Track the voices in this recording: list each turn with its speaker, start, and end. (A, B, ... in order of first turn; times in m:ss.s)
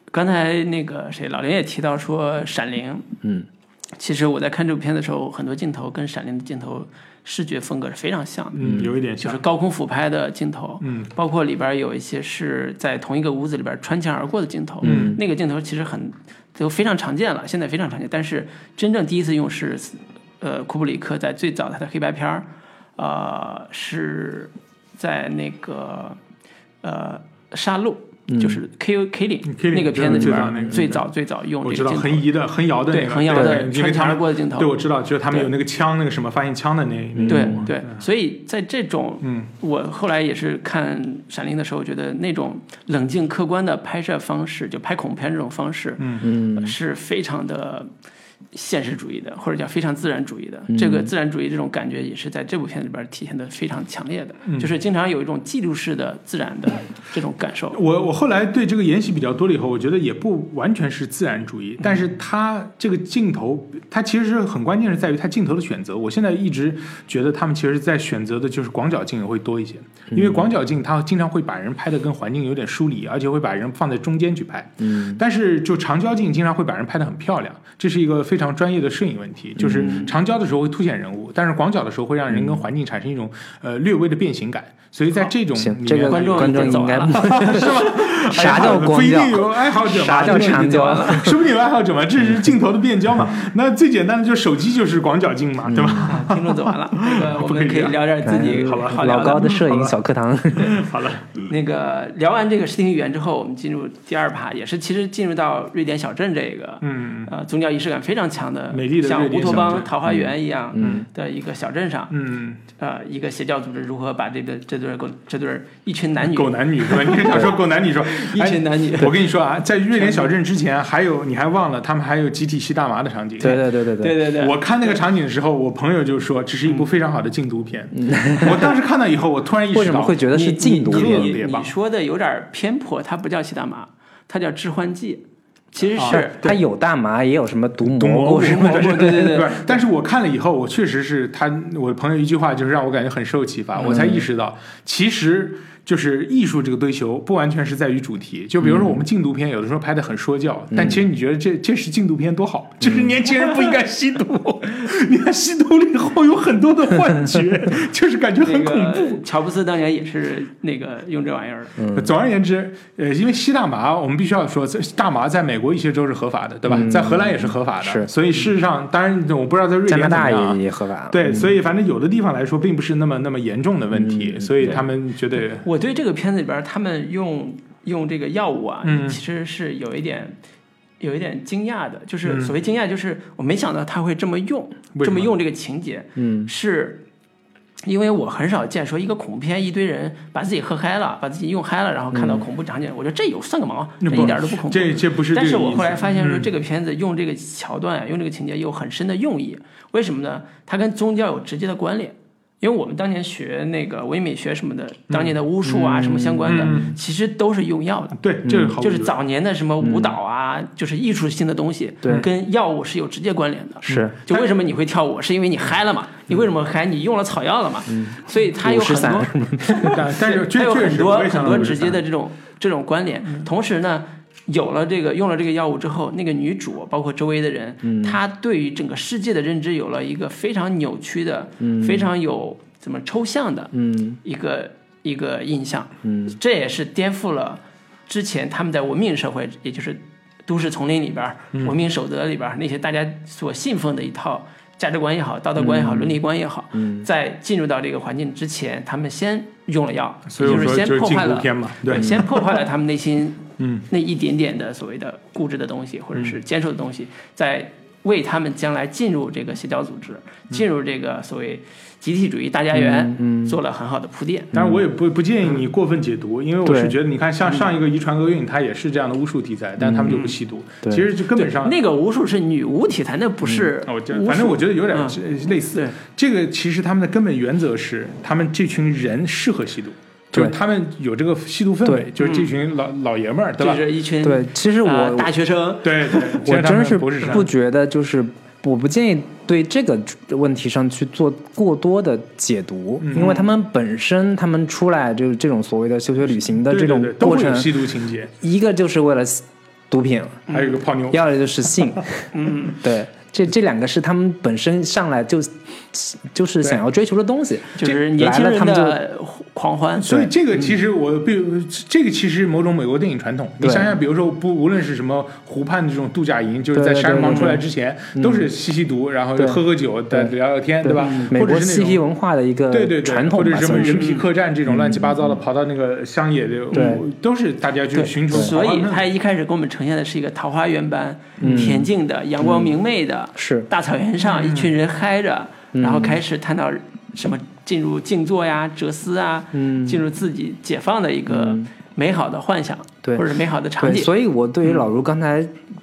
0:00.1-0:03.1 A
0:04.0-0:08.6 A
0:08.5-0:09.4 B
0:08.6-0:08.9 C
0:09.2-0:26.2 A
0:10.8-0:11.1 B
0:14.8-0:15.2 C
0:14.8-0:15.2 B
0:26.8-0:32.3 A
0:28.3-0:28.6 C
0:29.5-0:31.0 B
0:30.0-0:30.8 C
0:31.6-0:38.0 B
0:32.9-0:34.8 A
0:33.3-0:33.6 C
0:37.2-0:37.7 C
0:37.3-0:47.9 A
0:39.2-0:39.5 B
0:46.0-0:46.3 B
0:46.2-0:46.7 C
0:48.5-0:57.8 A
0:50.7-0:51.1 C
0:54.4-0:54.7 B
0:57.7-1:40.0 B
1:10.1-1:10.4 C
1:14.8-1:15.2 C
1:19.6-1:20.1 C
1:22.3-1:22.6 C
1:25.5-1:31.4 C
1:26.1-1:27.9 A
1:30.1-1:31.3 A
1:35.6-1:36.2 C
1:36.0-1:39.5 A
1:38.2-1:40.8 C
1:40.5-1:41.4 B
1:41.5-1:52.1 A
1:46.8-1:47.3 B
1:48.7-1:49.9 B
1:50.0-1:51.1 C
1:50.8-1:51.0 B
1:52.1-1:52.6 B
1:52.7-1:59.2 A
1:56.2-2:03.7 B
1:59.9-2:00.3 A
2:03.4-2:04.2 C
2:04.0-2:05.0 A
2:04.3-2:11.7 B
2:08.0-2:08.7 C
2:09.7-2:11.4 C
2:10.3-2:16.5 A
2:16.0-2:16.6 B
2:16.1-2:19.3 C
2:17.8-2:39.2 B
2:18.4-2:19.8 A
2:23.8-2:24.2 C
2:28.6-2:29.0 C
2:30.7-2:31.0 C
2:32.8-2:33.1 C
2:38.4-2:41.8 A
2:41.8-2:42.1 C
2:41.9-2:55.6 B
2:46.7-2:48.1 C
2:49.9-2:51.5 C
2:53.9-2:54.8 C
2:55.6-3:00.4 A
2:58.8-2:59.2 B
3:01.0-3:07.0 A
3:02.2-3:02.5 B
3:04.9-3:05.3 B
3:06.2-3:06.5 C
3:07.8-3:28.2 A
3:12.1-3:12.4 C
3:14.0-3:16.5 B
3:25.1-3:25.4 B
3:25.6-3:26.9 C
3:26.4-3:27.0 B
3:28.2-3:29.1 B
3:28.4-3:28.8 C
3:28.8-4:24.5 A
3:29.8-3:30.1 C
3:33.8-3:34.2 C
3:33.9-3:34.5 B
3:37.9-3:40.0 C
3:39.7-3:42.0 B
3:47.8-3:48.2 C
3:51.6-3:52.1 C
3:53.7-3:54.2 C
3:56.0-3:56.4 C
4:05.6-4:06.2 C
4:06.7-4:07.0 C
4:10.3-4:12.6 B
4:11.9-4:12.2 C
4:13.6-4:13.8 B
4:22.7-4:23.6 C
4:24.5-4:24.8 C
4:24.5-4:31.8 B
4:26.6-4:27.0 C
4:29.8-4:30.2 C
4:30.1-4:30.3 A
4:31.4-4:35.2 A
4:33.8-4:43.8 B
4:42.2-4:42.5 A
4:43.6-4:46.4 A
4:44.2-4:45.3 C
4:45.8-4:47.5 B
4:46.4-4:57.8 C
4:53.0-4:53.4 B
4:53.1-4:53.4 A
4:56.6-4:58.3 B
4:58.4-5:00.5 C
5:00.5-5:00.8 A
5:00.5-5:01.2 B
5:01.1-5:09.0 C
5:02.3-5:02.8 A
5:07.8-5:10.7 A
5:10.0-5:22.0 B
5:10.1-5:10.3 C
5:13.6-5:13.9 C
5:16.7-5:17.6 C
5:17.2-5:17.6 A
5:18.2-5:18.5 C
5:19.4-5:24.1 C
5:21.0-5:21.3 A
5:22.7-5:29.0 B
5:23.7-5:24.2 A
5:24.6-5:25.4 C
5:26.7-5:27.0 C
5:27.9-5:44.1 A
5:31.4-5:31.9 C
5:31.4-5:31.7 B
5:32.4-5:32.8 C
5:33.4-5:33.7 C
5:34.2-5:34.7 B
5:35.7-5:36.2 C
5:39.5-5:40.0 C
5:41.3-5:41.7 C
5:43.8-5:45.5 C